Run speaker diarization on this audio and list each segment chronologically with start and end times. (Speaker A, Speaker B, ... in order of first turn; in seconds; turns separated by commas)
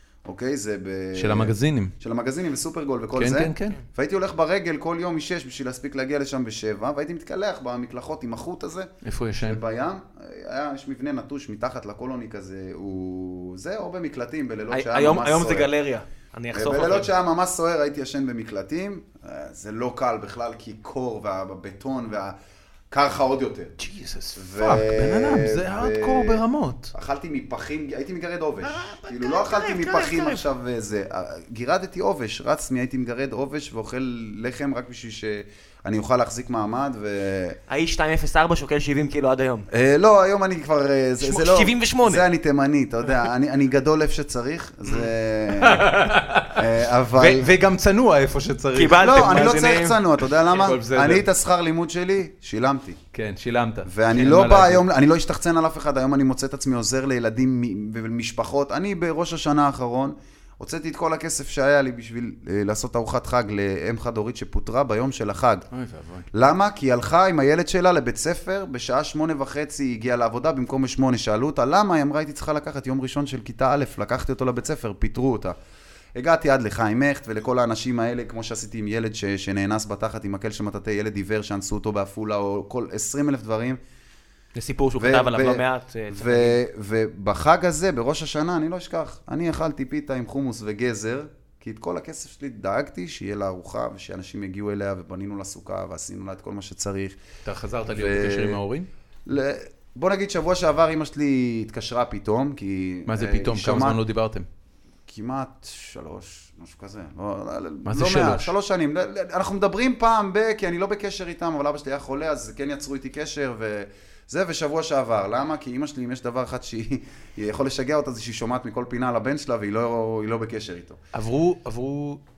Speaker A: 0.2-15.7, Speaker B: 1.1-1.9, Speaker B: 3.1-3.8, Speaker B: 9.0-9.6, Speaker C: 14.7-17.1, Speaker A: 16.5-22.4, Speaker A: 22.9-23.8, Speaker B: 23.8-26.9, Speaker A: 24.4-37.6, Speaker C: 28.6-30.4, Speaker C: 37.7-39.7, Speaker A: 39.7-47.5, Speaker C: 41.2-42.2, Speaker B: 45.6-49.2, Speaker C: 48.7-50.0, Speaker A: 48.9-53.0, Speaker B: 50.5-51.2, Speaker B: 53.1-54.9, Speaker A: 53.9-65.7, Speaker B: 65.7-66.2, Speaker A: 66.3-75.5, Speaker A: 76.2-83.8, Speaker C: 84.5-86.6, Speaker A: 85.0-97.2, Speaker B: 97.4-98.9, Speaker A: 97.9-98.6, Speaker A: 99.2-104.0, Speaker B: 103.1-104.5, Speaker A: 105.1-121.0, Speaker B: 107.8-108.5, Speaker B: 121.1-122.2